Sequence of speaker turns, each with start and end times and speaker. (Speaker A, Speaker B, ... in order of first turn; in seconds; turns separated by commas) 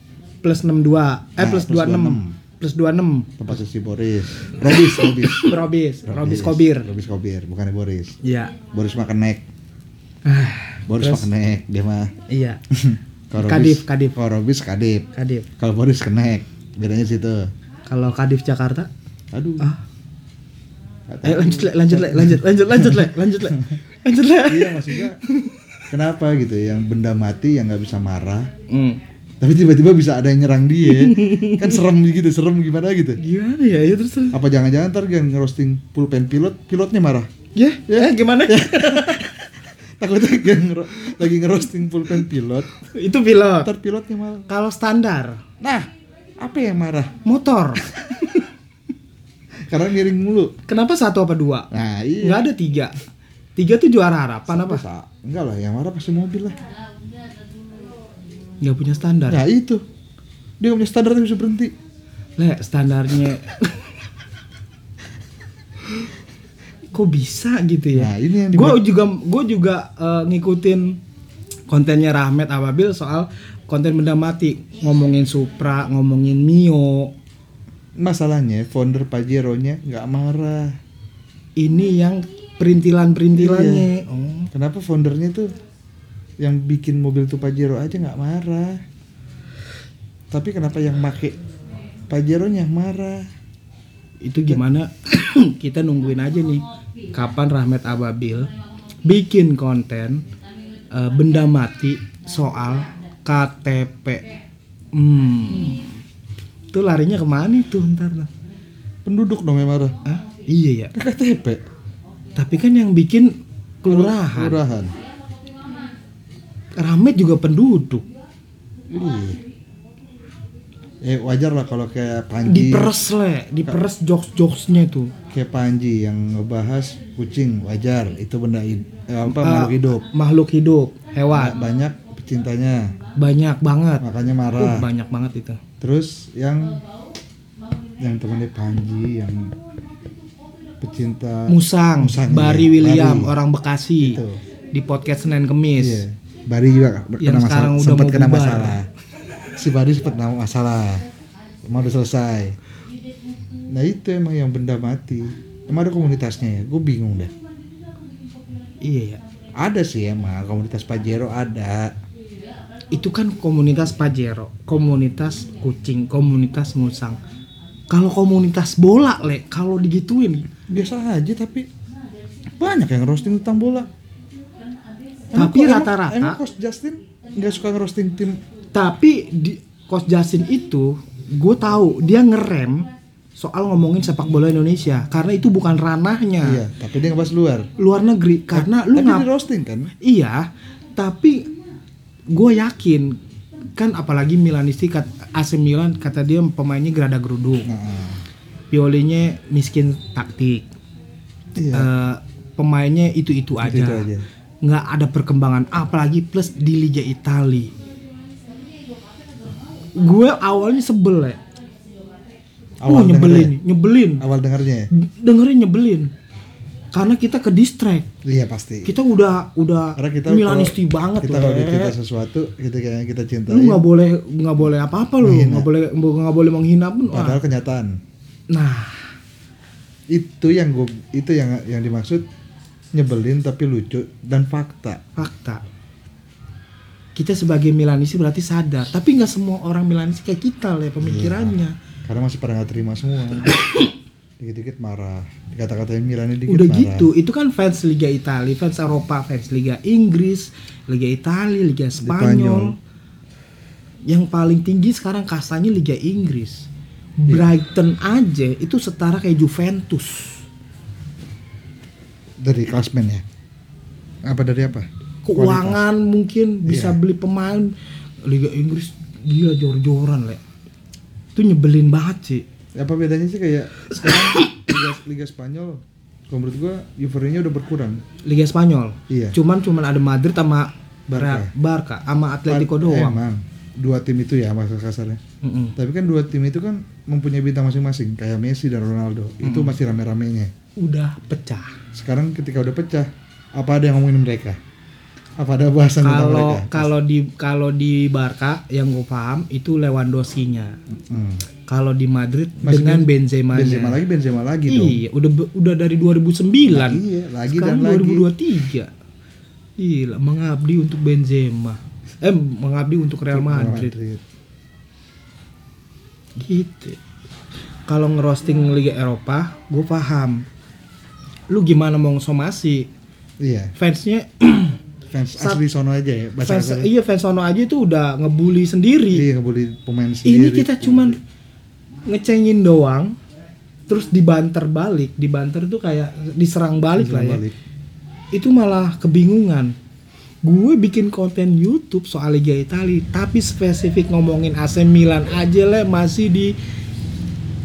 Speaker A: 0.4-3.4, Speaker B: 1.4-2.4, Speaker B: 3.4-8.2, Speaker A: 4.7-6.9, Speaker A: 8.2-8.5, Speaker B: 8.7-9.4, Speaker A: 10.2-11.3, Speaker B: 10.9-12.1, Speaker A: 12.3-12.6, Speaker B: 12.7-15.1, Speaker A: 13.4-14.2, Speaker A: 15.2-15.5, Speaker B: 15.6-17.5, Speaker A: 17.9-18.9, Speaker B: 19.3-19.7, Speaker B: 21.1-23.1, Speaker A: 21.2-25.6, Speaker B: 24.5-25.2, Speaker B: 25.9-28.5, Speaker A: 28.7-29.0, Speaker B: 29.4-33.2, Speaker A: 30.9-31.8, Speaker A: 33.2-34.4, Speaker B: 34.3-37.3, Speaker A: 37.5-39.4, Speaker B: 37.9-39.3, Speaker B: 40.0-42.7, Speaker A: 42.9-43.7, Speaker B: 43.6-44.5, Speaker A: 44.5-45.4, Speaker B: 45.6-47.1, Speaker A: 47.2-48.5, Speaker B: 49.7-50.5, Speaker A: 50.7-51.7, Speaker B: 51.7-52.5, Speaker A: 52.2-53.0, Speaker A: 53.6-54.8, Speaker B: 54.5-56.6, Speaker A: 58.6-59.4, Speaker B: 59.3-59.8, Speaker B: 60.6-61.7, Speaker A: 62.4-64.0, Speaker A: 66.9-71.0, Speaker B: 67.9-68.8, Speaker A: 71.7-77.1, Speaker B: 78.0-80.8, Speaker A: 81.6-84.5, Speaker B: 83.3-83.9, Speaker B: 84.5-85.5, Speaker B: 86.4-88.8, Speaker B: 90.3-91.4, Speaker B: 92.1-93.3, Speaker A: 94.2-96.6, Speaker A: 97.1-98.5, Speaker A: 99.0-100.2, Speaker A: 100.9-104.2, Speaker A: 104.9-105.8, Speaker A: 106.7-108.3, Speaker B: 109.0-110.0, Speaker A: 110.0-110.9, Speaker B: 110.9-111.6, Speaker A: 112.4-114.6, Speaker B: 113.8-114.9, Speaker A: 116.8-118.1, Speaker B: 118.9-119.4, Speaker B: 121.0-123.0, Speaker A: 122.5-125.1, Speaker B: 125.3-130.1, Speaker A: 129.3-131.6, Speaker B: 131.3-133.0, Speaker A: 133.2-134.1, Speaker B: 134.0-134.9, Speaker A: 134.6-135.6, Speaker B: 135.8-136.8, Speaker B: 138.0-139.6, Speaker B: 140.8-143.3, Speaker A: 141.5-144.2, Speaker B: 144.0-144.4, Speaker A: 144.7-146.1, Speaker B: 145.8-148.9, Speaker A: 147.2-148.8, Speaker B: 149.6-151.0, Speaker B: 151.7-152.6, Speaker B: 153.7-157.3, Speaker A: 158.8-159.2, Speaker B: 159.6-161.9, Speaker A: 162.9-167.2, Speaker A: 167.9-170.5, Speaker B: 170.7-171.7, Speaker B: 172.6-173.9, Speaker B: 175.3-178.4, Speaker A: 175.3-176.4, Speaker A: 178.7-186.6, Speaker B: 186.4-187.7, Speaker A: 187.8-189.3, Speaker B: 188.5-189.9, Speaker A: 190.0-191.5, Speaker A: 192.3-193.2, Speaker A: 193.8-197.7, Speaker B: 197.7-198.2, Speaker A: 198.7-200.7, Speaker B: 201.6-201.9, Speaker A: 201.7-204.1, Speaker B: 203.6-204.2, Speaker A: 204.6-207.7, Speaker A: 210.0-211.4, Speaker B: 212.8-213.6, Speaker A: 212.8-214.2, Speaker B: 214.2-214.9, Speaker A: 214.9-216.1, Speaker A: 216.9-218.1, Speaker B: 218.2-219.0, Speaker A: 218.9-221.9, Speaker B: 220.0-223.8, Speaker A: 223.5-227.4, Speaker B: 225.2-225.7, Speaker B: 227.1-228.0, Speaker A: 228.5-229.1, Speaker B: 230.1-232.2, Speaker B: 232.9-235.0, Speaker A: 235.2-235.6, Speaker A: 237.2-241.7, Speaker B: 241.0-243.6, Speaker A: 243.6-243.9, Speaker B: 244.4-247.1, Speaker A: 246.5-252.8, Speaker B: 252.0-252.7, Speaker A: 254.1-260.4, Speaker B: 262.4-263.2, Speaker B: 264.2-265.9, Speaker A: 265.2-270.4, Speaker B: 266.7-267.0, Speaker A: 271.4-272.4, Speaker B: 272.8-278.0, Speaker A: 273.9-274.7, Speaker A: 278.2-283.2, Speaker B: 279.1-279.4, Speaker B: 281.1-281.5, Speaker B: 282.5-285.2, Speaker A: 285.4-285.8, Speaker B: 285.8-290.5, Speaker A: 289.4-289.8, Speaker A: 290.8-291.8, Speaker B: 291.9-294.6, Speaker B: 295.4-296.9, Speaker A: 296.0-300.8, Speaker B: 300.9-301.4, Speaker A: 301.7-304.0, Speaker B: 302.6-305.0, Speaker A: 304.7-308.9, Speaker B: 306.7-308.3, Speaker A: 309.8-313.9, Speaker B: 313.3-314.2, Speaker A: 316.4-317.0, Speaker A: 317.9-320.5, Speaker A: 321.5-322.9, Speaker B: 323.4-323.7, Speaker A: 323.8-324.8, Speaker B: 325.1-326.9, Speaker A: 325.4-325.6, Speaker A: 326.4-329.2, Speaker B: 329.1-331.2, Speaker A: 330.2-331.2, Speaker A: 332.1-333.2, Speaker A: 333.9-337.4, Speaker B: 336.9-337.6, Speaker A: 338.3-339.8, Speaker A: 340.4-346.5